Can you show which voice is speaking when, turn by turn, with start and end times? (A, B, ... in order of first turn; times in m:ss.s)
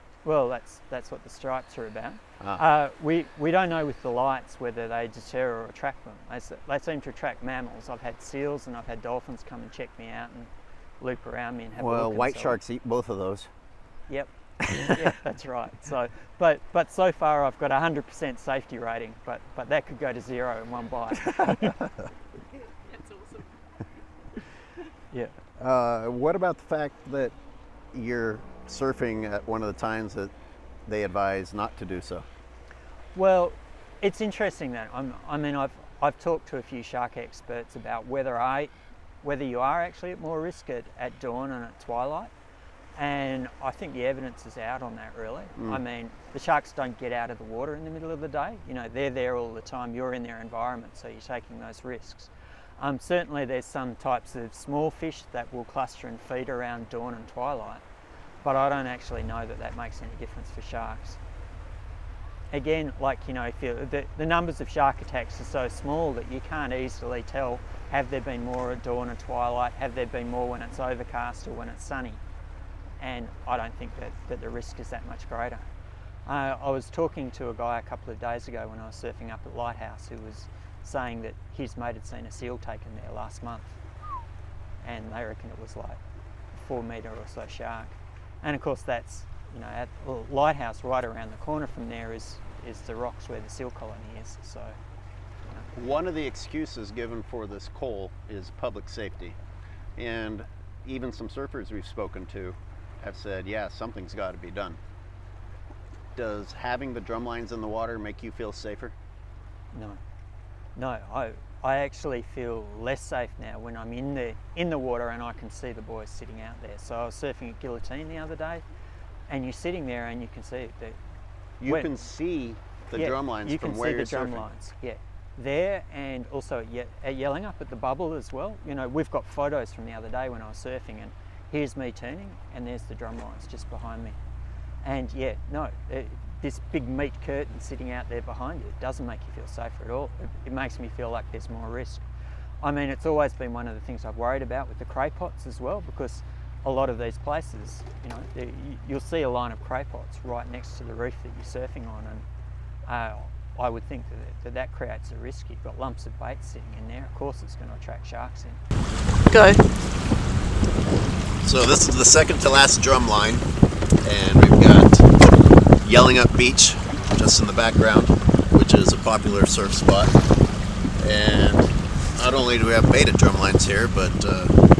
0:00.2-0:12.6 A
0:11.8-0:13.5 B
0:14.1-0:21.8 A
0:25.6-0:27.3 B
0:27.9-0:30.3 B
0:30.8-0:32.2 B
0:33.1-0:42.3 A
0:43.0-0:57.8 A
0:58.4-1:01.2 A
1:02.5-1:12.2 A
1:13.0-1:15.7 A
1:16.2-1:23.8 A
1:24.8-1:26.0 A
1:26.5-1:34.8 A
1:35.8-1:39.4 B
1:40.0-1:44.8 B
1:46.2-1:48.9 B
1:49.7-1:50.0 A
1:50.8-1:58.6 A
1:59.3-2:01.0 A
2:01.6-2:04.5 B
2:01.6-2:01.9 A
2:02.9-2:14.2 A
2:14.8-2:22.1 A
2:22.6-2:32.2 A
2:32.8-2:38.6 A
2:41.4-2:43.4 B
2:44.0-2:45.1 B
2:45.8-2:50.1 B
2:51.0-2:54.5 B